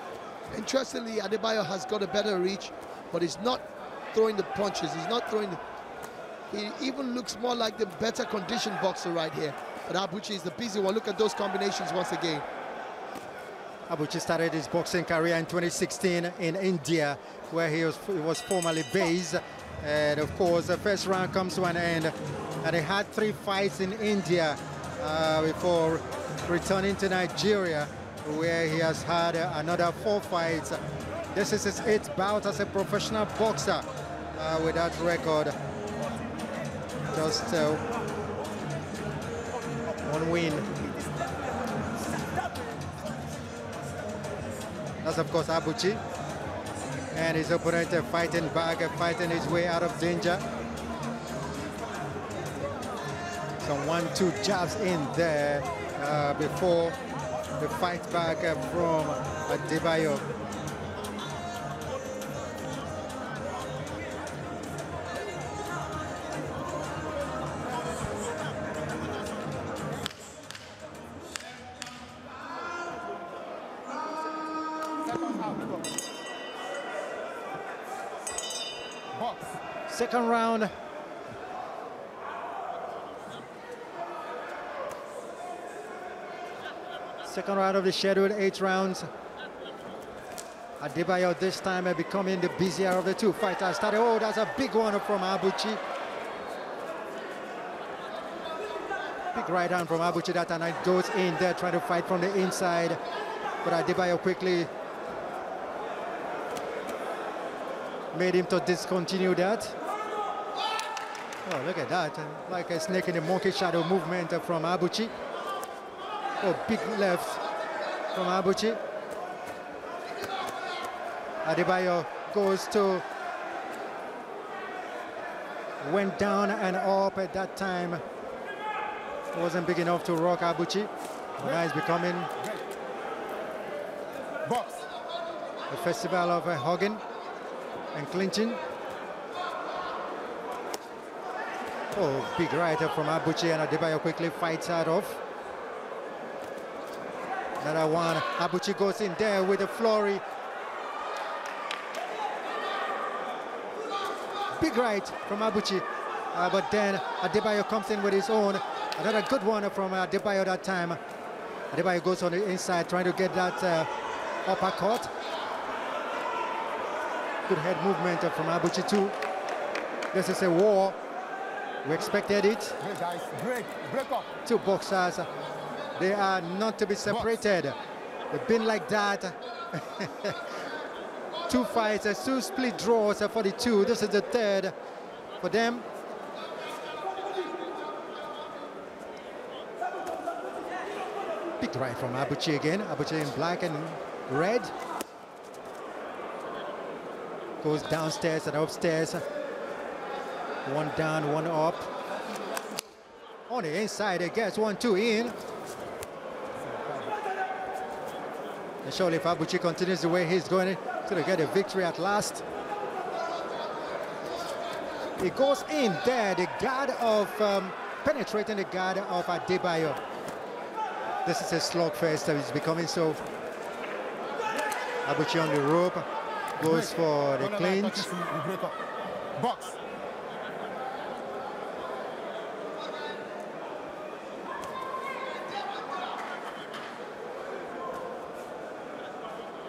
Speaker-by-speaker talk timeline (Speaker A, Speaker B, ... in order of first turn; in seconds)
Speaker A: 0.5-5.6, 6.5-12.4
Speaker B: 13.9-30.8, 31.3-35.5, 37.1-37.8, 40.0-40.7, 45.0-46.0, 47.1-50.4, 53.6-57.0, 57.6-60.3, 79.9-80.7, 87.2-89.1, 90.8-95.8, 99.3-103.0, 103.6-104.7, 108.1-109.7, 111.4-115.1, 116.4-117.4, 118.1-118.8, 121.4-123.0, 125.8-128.0, 129.3-132.3, 135.7-137.0, 137.9-138.6, 141.9-145.2, 147.6-150.2, 154.6-161.0, 161.7-163.9, 164.4-165.1, 167.5-169.1, 170.1-171.0, 171.8-172.8, 174.4-175.3, 176.0-177.8, 178.3-180.4, 181.5-184.7, 185.4-185.9, 191.6-194.7, 197.6-199.2, 200.6-201.9, 203.5-205.3, 208.8-212.4, 215.2-220.0, 221.2-223.2, 225.0-226.0, 226.6-228.1
Speaker C: 42.2-42.6, 75.0-76.0, 79.1-79.6, 134.4-134.8, 172.8-174.3, 202.2-202.6, 206.6-207.2, 226.6-228.8, 229.4-229.8